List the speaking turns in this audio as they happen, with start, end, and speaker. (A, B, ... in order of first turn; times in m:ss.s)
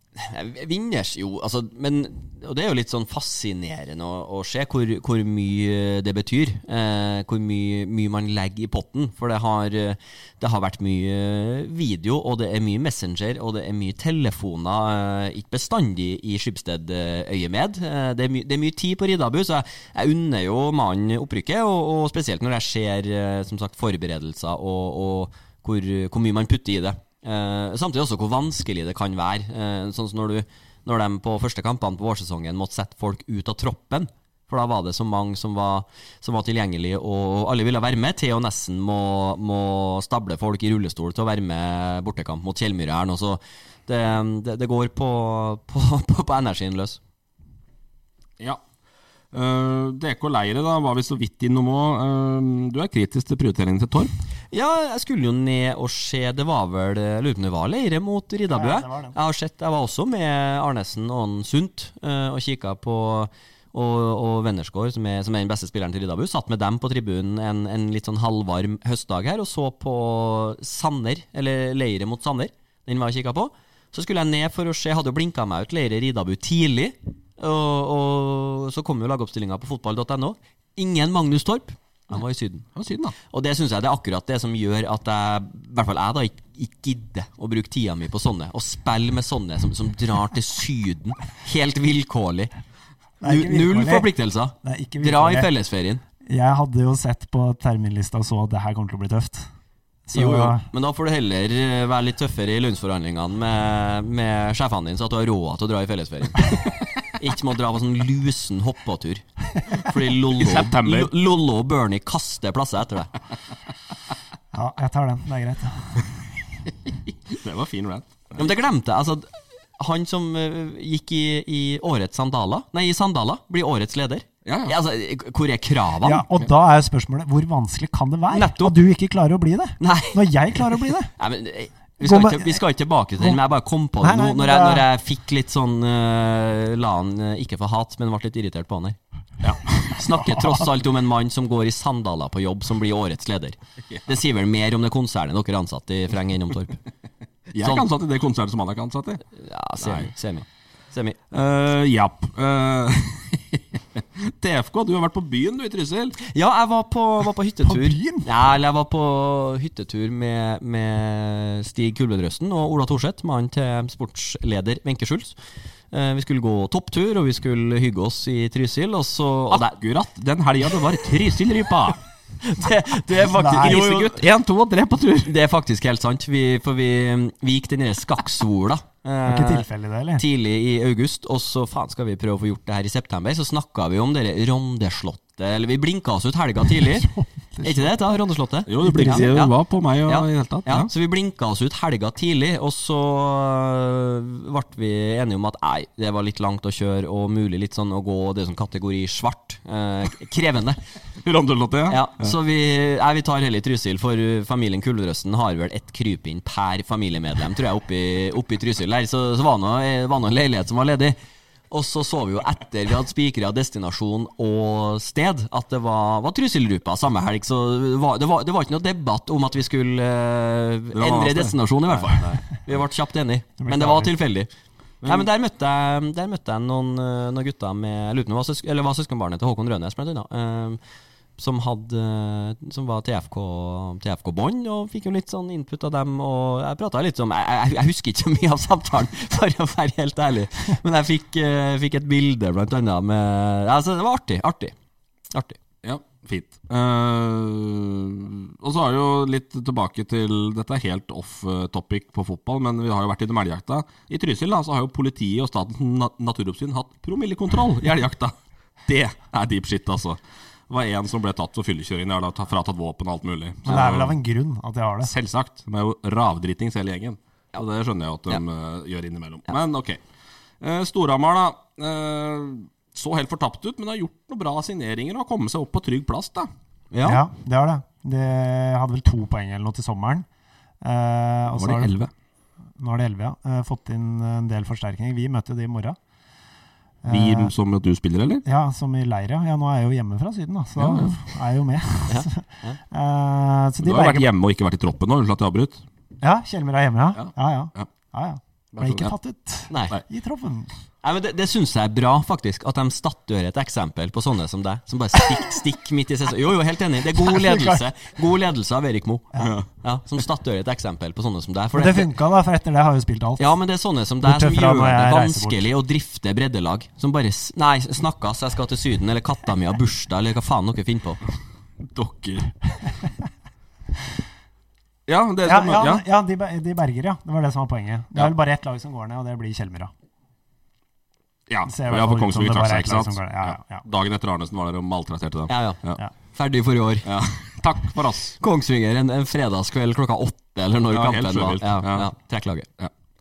0:00.2-0:47.0 A
0:49.3-0:54.1 B
0:54.5-1:22.6 A
0:58.5-0:59.2 C
1:22.7-1:23.1 B
1:23.3-1:32.5 A
1:33.2-1:34.1 C
1:33.2-1:36.0 A
1:34.6-1:35.5 C
1:36.2-1:39.5 C
1:40.1-1:40.6 C
1:40.1-1:53.1 A
1:50.4-1:51.1 B
1:54.5-1:56.1 C
1:57.1-1:58.5 B
1:58.4-1:59.3 A
1:59.8-2:06.2 A
2:04.4-2:04.7 B
2:06.0-2:11.1 C
2:08.3-2:08.7 A
2:09.8-2:19.0 A
2:12.0-2:12.6 C
2:14.0-2:14.8 C
2:19.4-2:20.0 B
2:19.9-2:26.8 A
2:27.5-2:29.2 B
2:27.6-2:27.9 A
2:29.3-2:31.2 A
2:29.8-2:30.1 B
2:31.3-2:36.2 B
2:36.2-2:45.4 A
2:37.6-2:38.3 C
2:45.9-2:49.8 A
2:49.5-2:52.0 B
2:52.4-2:54.2 A
2:53.2-2:53.8 C
2:53.6-2:55.3 B
2:55.2-2:59.6 A
2:59.2-3:00.2 C
3:00.2-3:07.1 A
3:06.8-3:07.9 C
3:07.6-3:09.5 A
3:08.7-3:10.9 B
3:08.8-3:09.3 C
3:10.0-3:20.8 A
3:21.2-3:22.3 B
3:21.9-3:31.2 A
3:31.7-3:44.5 A
3:40.9-3:42.4 B
3:43.6-3:44.1 C
3:45.0-3:45.3 B
3:45.0-3:50.8 A
3:51.4-4:04.7 A
4:05.3-4:05.6 A
4:05.8-4:18.3 B
4:18.8-4:24.2 B
4:23.6-4:25.1 C
4:25.0-4:30.0 B
4:30.6-4:36.5 B
4:36.9-4:37.2 A
4:37.0-4:40.2 C
4:40.8-4:41.9 C
4:41.5-4:42.1 B
4:42.8-4:46.0 C
4:47.0-4:47.5 C
4:47.1-4:48.4 B
4:48.4-4:54.3 C
4:50.8-4:51.3 B
4:52.1-4:52.8 A
4:53.8-4:55.8 B
4:56.2-5:00.7 C
4:57.1-4:57.9 B
4:58.7-4:59.1 B
4:59.7-4:59.9 A
5:01.0-5:09.3 A
5:07.1-5:07.8 C
5:09.4-5:09.6 B
5:09.8-5:12.1 A
5:11.7-5:13.5 C
5:13.4-5:21.2 A
5:14.2-5:15.7 C
5:21.8-5:22.5 B
5:25.1-5:26.0 B
5:25.4-5:29.9 C
5:31.5-5:36.0 B
5:31.7-5:33.8 C
5:35.5-5:37.1 A
5:37.0-5:38.4 B
5:38.4-5:42.7 A
5:40.9-5:42.1 B